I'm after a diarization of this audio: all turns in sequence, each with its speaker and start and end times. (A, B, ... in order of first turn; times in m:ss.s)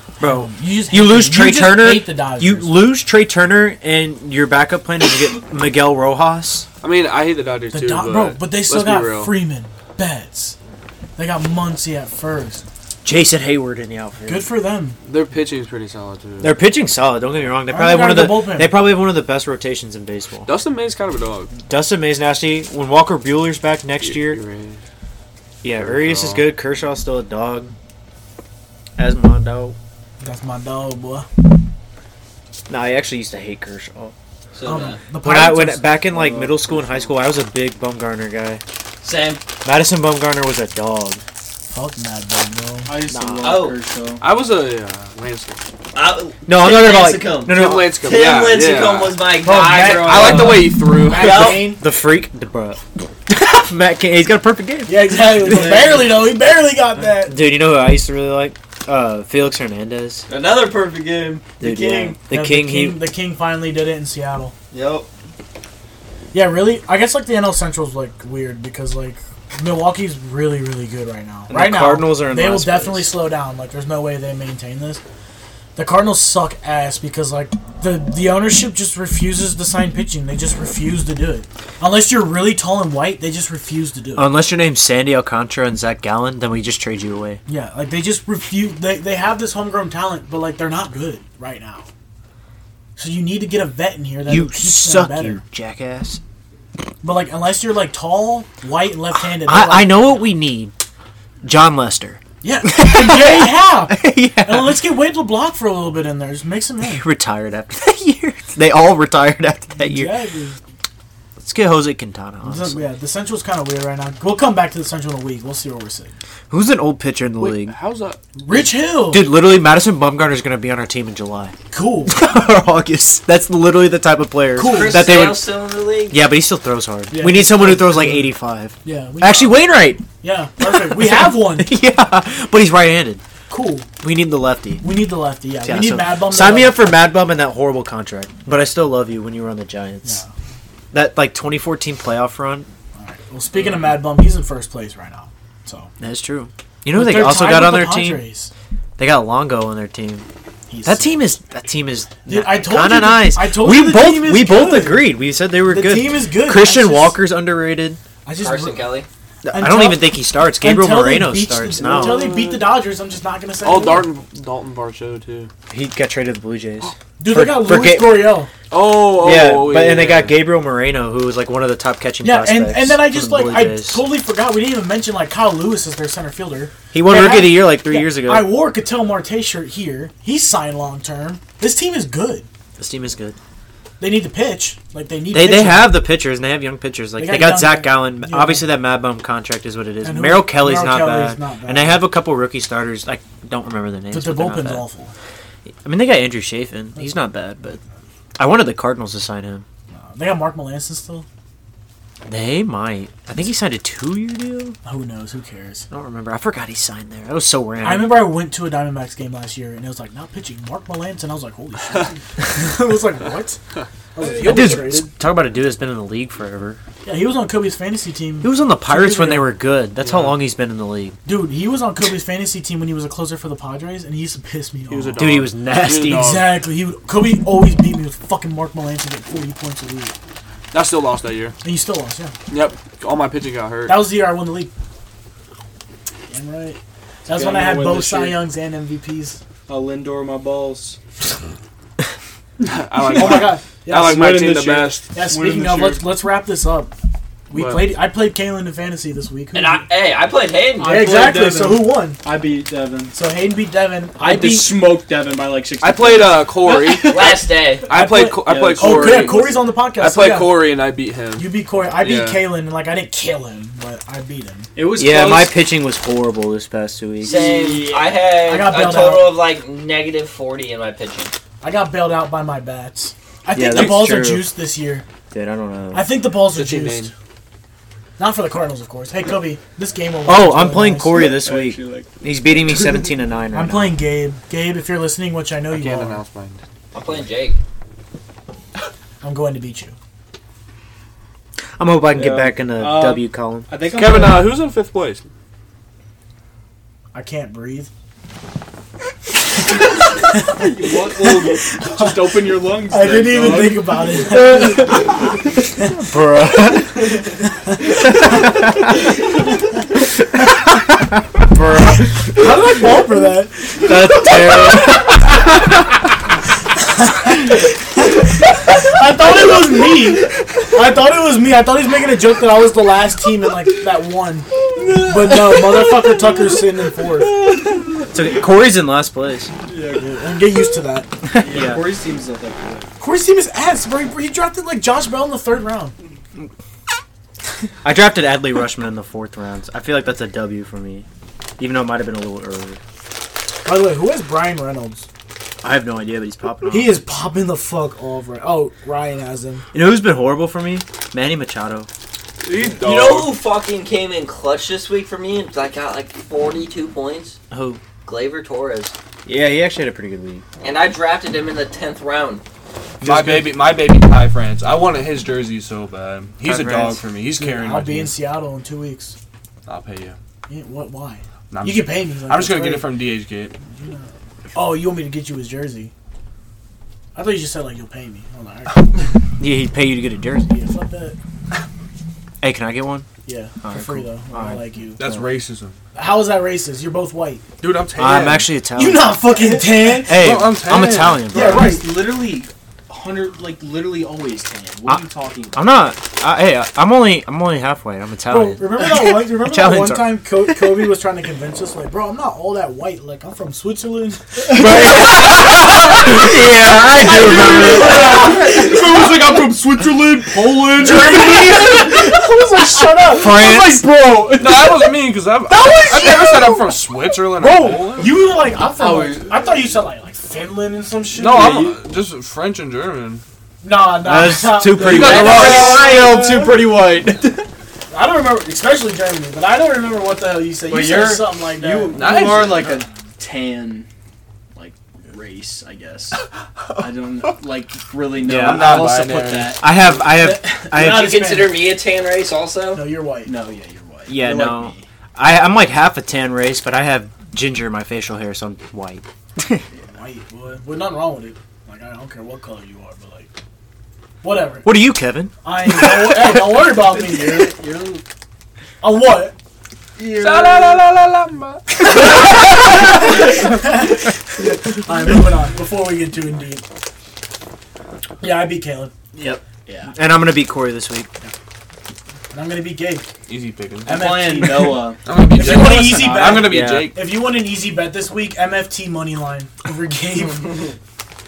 0:00.2-0:02.8 A
0:00.2-0:06.7 B
0:06.8-0:09.4 C
0:07.7-0:10.6 A
0:11.2-0:12.6 A
0:13.0-0:14.5 B
0:14.3-0:15.0 A
0:15.0-0:16.6 C
0:16.4-0:20.5 B
0:17.7-0:18.8 A
0:20.5-0:21.5 C
0:21.7-0:24.4 B
0:24.0-0:24.8 C
0:25.6-0:27.7 B
0:25.7-0:26.5 C
0:29.0-0:29.8 B
0:30.2-0:31.3 A
0:32.7-0:34.1 B
0:34.5-0:35.0 D
0:34.6-0:35.9 A
0:35.2-0:38.6 B
0:36.1-0:37.1 E
0:39.0-0:39.4 D
0:39.6-0:41.2 B
0:41.7-0:43.0 A
0:42.9-0:44.2 E
0:43.1-0:43.7 B
0:43.4-0:43.8 D
0:44.2-0:45.6 C
0:46.0-0:51.8 D
0:46.5-0:47.8 B
0:47.5-0:49.2 C
0:49.4-0:51.8 A
0:49.8-0:51.6 C
0:51.8-0:56.0 B
0:54.9-0:57.4 A
0:57.2-1:00.2 B
1:00.3-1:02.2 D
1:01.6-1:03.0 B
1:02.1-1:04.5 A
1:04.7-1:05.1 D
1:06.3-1:15.0 A
1:11.5-1:13.2 B
1:15.8-1:24.3 A
1:24.2-1:27.4 B
1:27.5-1:31.9 A
1:33.0-1:35.4 A
1:34.3-1:36.2 B
1:37.0-1:40.1 A
1:39.3-1:40.7 B
1:41.4-1:44.8 B
1:42.4-1:47.1 A
1:46.8-1:50.1 B
1:49.8-1:50.6 A
1:51.4-1:52.9 B
1:52.4-1:56.2 A
1:56.5-1:57.8 B
1:57.4-1:58.2 C
1:58.4-1:59.3 A
1:58.5-2:01.6 B
2:01.7-2:02.2 A
2:02.1-2:05.5 B
2:04.6-2:05.2 A
2:04.6-2:06.2 D
2:06.1-2:10.0 B
2:07.1-2:09.6 A
2:10.2-2:11.7 A
2:10.6-2:13.2 B
2:13.5-2:13.9 A
2:14.0-2:14.8 B
2:14.8-2:16.9 A
2:15.6-2:20.2 B
2:20.0-2:20.3 A
2:20.9-2:22.7 B
2:23.0-2:25.9 A
2:26.0-2:28.3 B
2:26.9-2:28.5 A
2:29.0-2:30.3 B
2:30.7-2:31.3 A
2:30.8-2:38.0 B
2:32.3-2:37.2 A
2:38.2-2:39.0 A
2:38.4-2:39.1 D
2:39.4-2:42.3 B
2:39.5-2:44.1 A
2:41.8-2:42.7 C
2:43.6-2:45.5 C
2:45.7-2:48.4 B
2:47.2-2:48.5 A
2:48.7-2:50.4 C
2:49.2-2:54.0 B
2:52.2-3:02.5 A
2:56.9-2:58.5 B
3:02.8-3:03.4 B
3:04.0-3:06.0 A
3:05.3-3:14.8 B
3:07.2-3:08.7 A
3:10.0-3:12.0 A
3:14.1-3:15.1 A
3:15.8-3:17.8 B
3:18.4-3:19.6 B
3:19.9-3:21.3 A
3:22.3-3:24.8 B
3:24.8-3:25.9 A
3:25.9-3:28.3 B
3:27.8-3:33.6 A
3:34.2-3:35.1 A
3:34.2-3:34.8 C
3:34.4-3:36.8 B
3:37.0-3:39.6 A
3:38.4-3:41.2 B
3:40.0-3:40.4 C
3:41.2-3:45.4 A
3:44.9-3:46.6 C
3:45.2-3:46.4 B
3:46.0-3:50.1 A
3:50.7-3:51.6 C
3:51.6-3:52.4 A
3:52.5-3:54.1 C
3:53.9-3:54.7 A
3:56.3-3:59.4 A
3:57.3-3:58.5 E
3:59.7-4:01.0 E
4:02.6-4:05.0 C
4:03.0-4:06.1 E
4:03.2-4:04.4 A
4:05.1-4:06.9 A
4:07.5-4:09.9 A
4:07.5-4:07.9 C
4:09.5-4:10.9 D
4:10.8-4:13.2 E
4:10.8-4:12.2 A
4:13.1-4:14.9 A
4:14.2-4:16.5 E
4:15.8-4:22.5 C
4:16.6-4:20.6 A
4:17.0-4:17.9 D
4:18.5-4:19.6 E
4:21.4-4:24.7 A
4:24.8-4:25.6 E
4:25.0-4:27.5 B
4:27.2-4:28.4 E
4:27.2-4:31.3 D
4:28.4-4:29.4 A
4:31.6-4:35.0 A
4:33.5-4:34.5 B
4:33.7-4:34.0 C
4:35.3-4:36.1 B
4:35.9-4:37.1 A
4:36.5-4:37.1 C
4:38.2-4:41.2 A
4:40.3-4:44.0 B
4:41.1-4:42.1 E
4:43.5-4:46.2 A
4:45.7-4:46.6 C
4:46.9-4:47.6 D
4:49.2-4:50.0 A
4:51.8-4:53.7 B
4:52.1-4:54.6 E
4:53.9-4:55.2 C
4:57.1-4:57.9 A
5:00.3-5:05.9 A
5:00.4-5:04.0 E
5:04.3-5:07.2 B
5:07.6-5:08.0 A
5:08.0-5:09.0 B
5:11.5-5:14.3 A
5:13.8-5:15.4 B
5:16.8-5:27.4 A
5:24.8-5:25.5 E
5:28.1-5:29.5 B
5:29.7-5:30.2 E
5:29.9-5:31.1 A
5:31.3-5:31.9 B
5:31.3-5:32.9 E
5:33.0-5:36.0 A
5:37.8-5:41.1 B
5:41.6-5:42.8 B
5:43.6-5:45.1 A
5:45.6-5:47.0 B
5:46.7-5:49.6 A
5:49.7-5:51.9 B
5:52.4-5:53.4 C
5:52.8-5:57.4 D
5:57.5-5:57.8 B
5:58.0-5:58.9 D
5:59.2-6:00.4 B
6:00.6-6:02.4 D
6:03.0-6:03.5 B
6:03.0-6:08.2 C
6:06.4-6:07.0 B
6:07.4-6:09.2 A
6:09.7-6:10.2 C
6:10.5-6:13.0 A
6:11.5-6:13.6 C
6:13.7-6:15.9 A
6:17.2-6:19.1 A
6:19.4-6:20.5 B
6:20.5-6:21.2 A
6:22.4-6:23.1 B
6:23.3-6:25.2 A
6:23.6-6:24.6 B
6:25.0-6:25.8 C
6:26.0-6:27.4 A
6:27.6-6:28.5 C
6:28.0-6:29.3 B
6:28.8-6:30.4 A
6:30.0-6:31.7 B
6:30.0-6:31.4 C
6:31.3-6:31.9 A
6:31.3-6:35.7 E
6:34.9-6:40.9 B
6:38.3-6:45.1 A
6:44.5-6:48.4 B
6:44.9-6:45.6 C
6:47.0-6:48.8 A
6:47.0-6:51.8 C
6:50.3-6:51.9 E
6:50.7-6:53.4 A
6:53.1-6:53.8 B
6:53.2-6:54.6 E
6:54.3-6:58.1 C
6:55.5-7:01.6 A
6:58.8-6:59.3 E
7:01.2-7:03.2 C
7:01.2-7:01.8 E
7:03.6-7:06.7 A
7:04.0-7:05.7 B
7:04.8-7:06.0 C
7:04.9-7:07.5 E
7:07.9-7:12.0 A
7:10.7-7:13.9 E
7:11.9-7:12.8 C
7:14.6-7:16.2 E
7:16.8-7:20.2 E
7:18.2-7:21.2 B
7:18.2-7:19.6 C
7:20.1-7:21.7 A
7:20.8-7:22.8 D
7:22.7-7:23.3 A
7:23.2-7:24.9 E
7:24.1-7:29.6 B
7:29.8-7:33.3 A
7:34.2-7:34.7 A
7:34.6-7:36.2 B
7:35.4-7:37.6 A
7:36.6-7:38.0 E
7:38.8-7:39.4 A
7:40.0-7:40.8 E
7:40.0-7:43.0 C
7:42.9-7:46.6 A
7:48.2-7:48.9 A
7:49.2-7:49.4 B
7:49.7-7:49.9 E
7:50.0-7:51.1 B
7:52.3-7:53.1 A
7:53.3-7:54.0 C
7:53.8-7:56.4 E
7:53.8-8:00.7 A
7:55.0-7:57.0 C
7:56.4-7:56.9 B